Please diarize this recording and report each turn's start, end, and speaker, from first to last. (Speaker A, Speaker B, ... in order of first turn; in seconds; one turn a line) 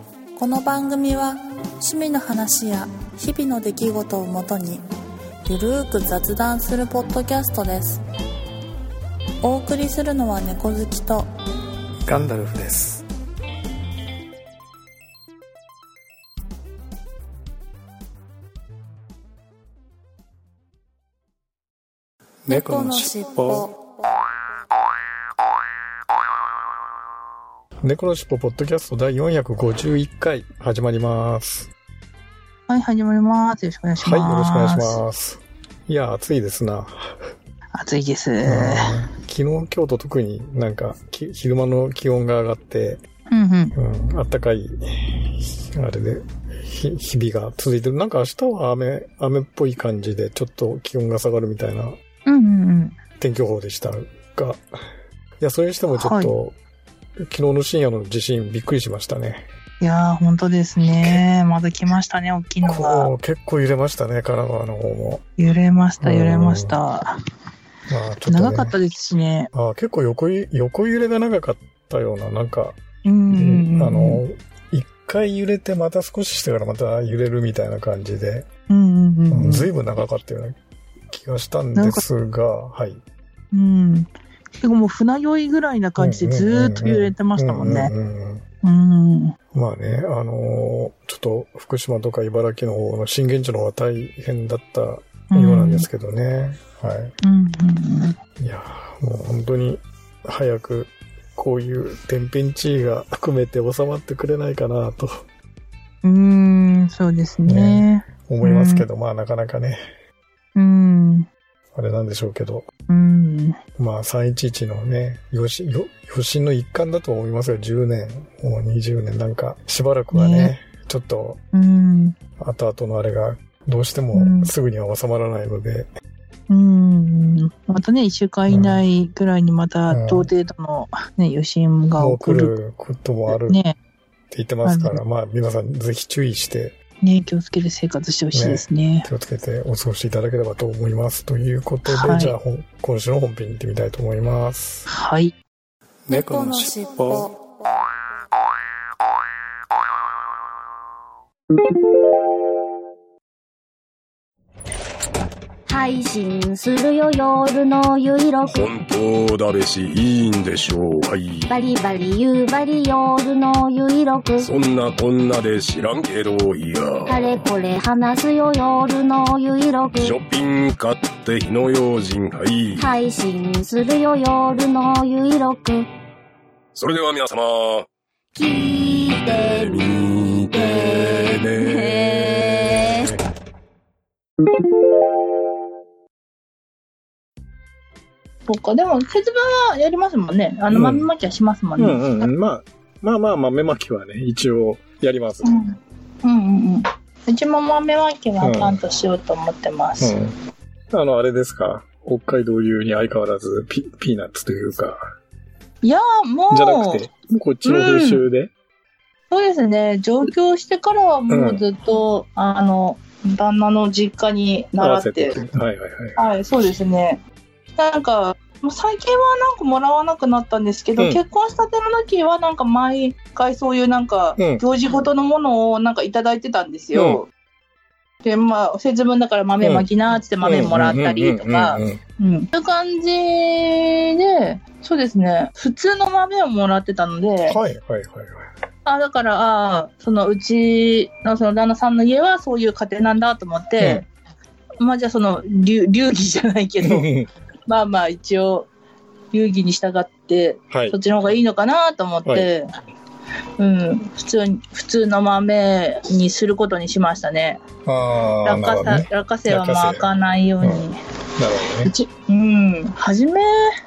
Speaker A: 0.3-4.8
Speaker A: 5.5-8.0
Speaker A: 9.4-11.3
Speaker B: 12.1-13.0
Speaker B: 22.5-23.7
Speaker A: 22.5-23.8
Speaker B: 27.8-31.7
Speaker C: 32.7-35.0
Speaker B: 34.0-37.3
Speaker C: 37.7-38.9
Speaker B: 38.5-43.0
Speaker C: 43.3-43.7
Speaker B: 43.7-52.0
Speaker C: 52.3-53.0
Speaker B: 53.2-54.6
Speaker B: 55.4-56.5
Speaker C: 55.9-56.3
Speaker B: 57.3-59.5
Speaker C: 59.8-63.1
Speaker B: 62.6-65.2
Speaker C: 65.4-67.1
Speaker B: 66.0-66.8
Speaker B: 67.9-68.7
Speaker C: 68.3-69.5
Speaker B: 69.5-72.8
Speaker C: 73.0-74.2
Speaker B: 73.3-78.5
Speaker C: 78.7-79.7
Speaker B: 79.3-80.6
Speaker B: 81.1-83.0
Speaker C: 81.8-82.0
Speaker C: 83.5-87.9
Speaker B: 86.0-88.4
Speaker C: 88.6-89.3
Speaker B: 89.5-97.1
Speaker C: 95.3-95.9
Speaker C: 97.2-98.2
Speaker B: 98.4-105.2
Speaker C: 106.0-108.8
Speaker B: 107.5-109.8
Speaker C: 110.5-111.3
Speaker B: 111.7-112.7
Speaker C: 112.9-113.6
Speaker B: 113.8-121.4
Speaker C: 120.1-120.5
Speaker C: 121.5-122.2
Speaker B: 122.4-125.9
Speaker C: 124.1-124.5
Speaker C: 126.5-132.5
Speaker B: 128.5-128.8
Speaker B: 129.9-130.3
Speaker B: 132.0-133.6
Speaker C: 133.3-133.8
Speaker B: 134.3-136.8
Speaker C: 134.6-135.0
Speaker C: 137.0-139.1
Speaker B: 138.3-144.9
Speaker C: 141.8-142.3
Speaker C: 144.9-145.3
Speaker B: 146.1-147.3
Speaker A: 146.1-147.3
Speaker D: 155.7-158.7
Speaker E: 158.4-161.5
Speaker D: 161.5-164.5
Speaker E: 164.4-167.4
Speaker D: 167.1-170.2
Speaker E: 170.0-172.9
Speaker D: 172.8-175.9
Speaker E: 176.8-177.9
Speaker D: 178.3-183.1
Speaker E: 178.5-183.1
Speaker C: 188.5-192.3
Speaker B: 190.7-191.1
Speaker B: 191.8-195.6
Speaker C: 195.4-200.2
Speaker B: 198.4-198.8
Speaker B: 200.0-200.3
Speaker B: 200.9-205.0
Speaker C: 205.8-207.1
Speaker B: 206.5-208.5
Speaker C: 207.6-208.2
Speaker C: 209.3-215.4
Speaker B: 211.3-211.6
Speaker B: 214.8-216.2
Speaker C: 216.2-217.2
Speaker C: 217.8-227.3
Speaker B: 224.4-224.6
Speaker B: 226.9-227.2
Speaker C: 228.2-237.6
Speaker B: 230.4-232.0
Speaker B: 237.5-238.5
Speaker C: 238.8-244.1
Speaker B: 243.8-244.0
Speaker C: 244.8-247.1
Speaker B: 246.8-247.3
Speaker C: 247.7-248.7
Speaker C: 249.3-252.7
Speaker B: 250.7-250.9
Speaker C: 253.6-257.6
Speaker B: 257.9-260.1
Speaker C: 258.4-261.0
Speaker B: 261.4-261.9
Speaker C: 261.8-263.7